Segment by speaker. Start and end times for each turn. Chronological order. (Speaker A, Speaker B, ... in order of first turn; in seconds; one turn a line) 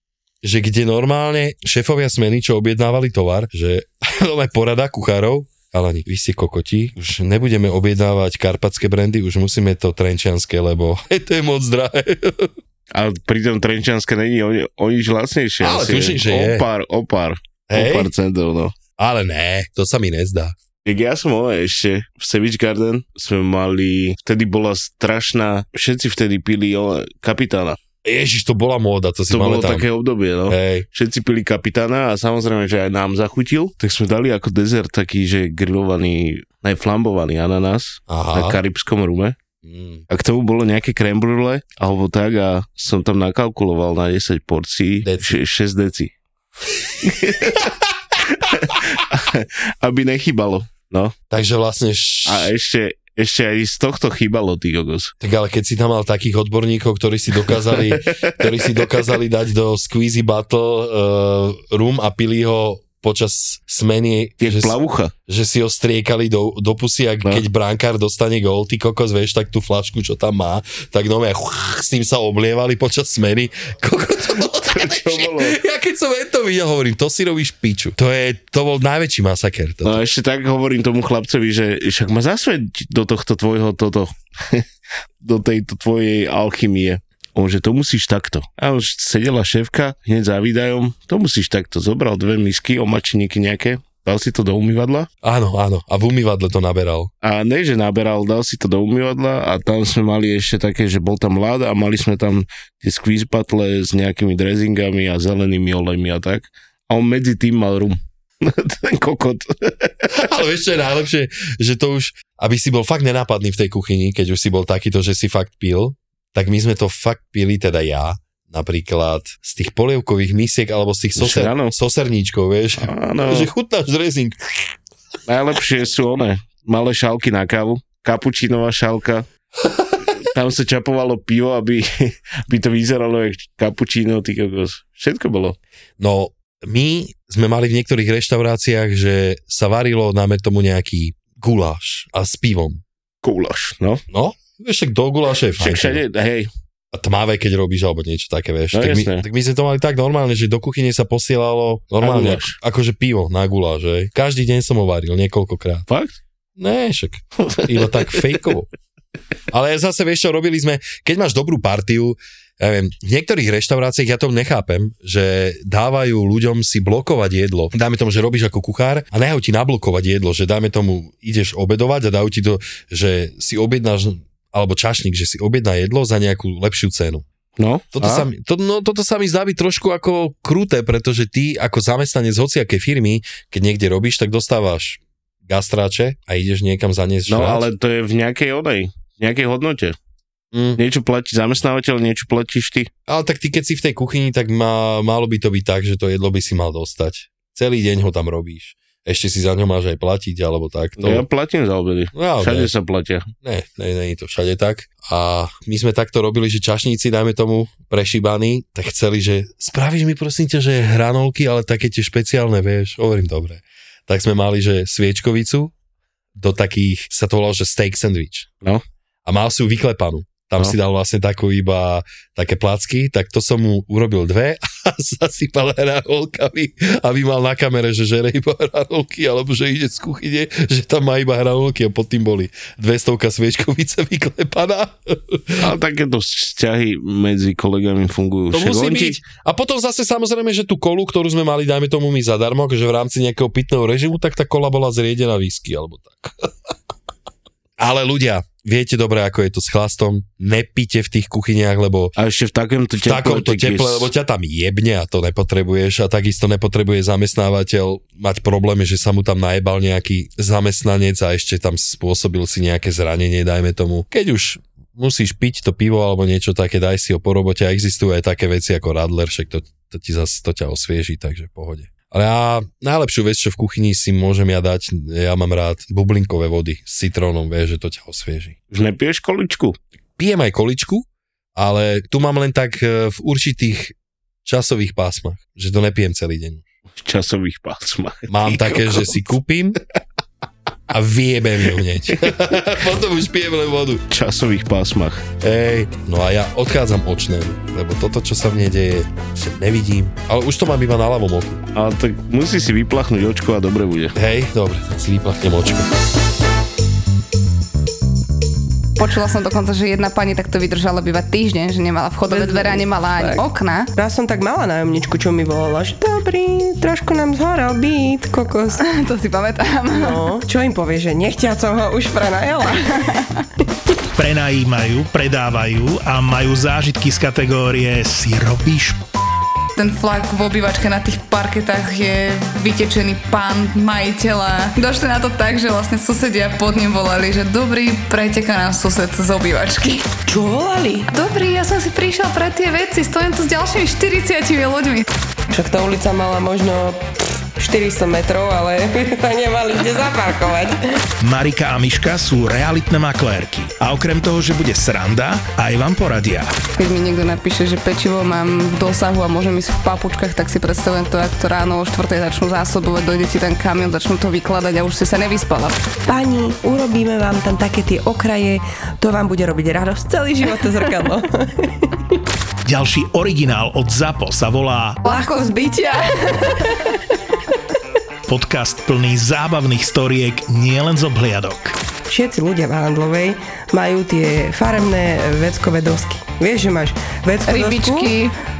Speaker A: 0.4-12.5
Speaker B: 12.9-18.7
Speaker A: 15.6-16.6
Speaker A: 17.7-18.1
Speaker A: 19.0-20.5
Speaker B: 20.8-27.8
Speaker A: 28.0-29.9
Speaker B: 29.3-39.4
Speaker A: 30.5-30.9
Speaker A: 38.1-38.6
Speaker A: 39.6-40.0
Speaker B: 40.1-46.1
Speaker A: 45.0-45.3
Speaker B: 47.0-51.1
Speaker A: 51.3-52.5
Speaker B: 52.2-55.1
Speaker A: 55.2-64.7
Speaker B: 57.5-59.1
Speaker B: 64.4-65.1
Speaker A: 65.3-80.0
Speaker B: 74.7-75.6
Speaker B: 79.8-84.7
Speaker B: 85.2-95.1
Speaker A: 95.2-97.1
Speaker B: 97.2-110.3
Speaker A: 110.1-124.7
Speaker B: 121.2-121.7
Speaker B: 122.8-123.5
Speaker B: 125.2-129.2
Speaker A: 129.6-130.1
Speaker B: 130.2-135.6
Speaker A: 136.0-142.8
Speaker B: 143.2-144.0
Speaker A: 144.1-146.0
Speaker B: 145.6-146.5
Speaker A: 146.9-155.8
Speaker B: 148.7-149.2
Speaker B: 152.0-152.6
Speaker B: 155.9-156.1
Speaker A: 156.6-158.7
Speaker A: 159.5-177.2
Speaker B: 177.6-178.3
Speaker A: 177.9-187.7
Speaker B: 187.3-189.9
Speaker A: 190.5-190.8
Speaker B: 190.8-192.9
Speaker A: 193.1-201.2
Speaker B: 201.0-203.3
Speaker A: 202.1-202.7
Speaker A: 203.4-215.7
Speaker A: 216.3-218.5
Speaker A: 219.2-235.7
Speaker B: 235.6-239.2
Speaker A: 238.5-246.3
Speaker A: 247.8-252.1
Speaker B: 252.2-254.1
Speaker A: 253.0-278.6
Speaker B: 278.7-279.8
Speaker A: 280.2-286.6
Speaker B: 286.9-289.2
Speaker A: 288.3-289.8
Speaker A: 290.9-294.0
Speaker B: 294.1-295.3
Speaker A: 295.4-301.6
Speaker B: 301.7-304.1
Speaker A: 304.1-305.9
Speaker C: 309.0-313.9
Speaker D: 312.3-313.4
Speaker D: 313.9-318.8
Speaker C: 318.8-320.2
Speaker D: 319.9-323.0
Speaker E: 324.1-329.0
Speaker C: 329.8-340.2
Speaker D: 340.3-341.1
Speaker C: 341.1-345.1
Speaker D: 345.5-350.8
Speaker E: 351.2-356.6
Speaker C: 356.8-365.8
Speaker D: 366.1-371.9
Speaker E: 372.6-375.0
Speaker D: 375.0-375.6
Speaker C: 375.0-376.9
Speaker E: 378.3-381.7
Speaker D: 382.1-388.1
Speaker C: 387.4-388.3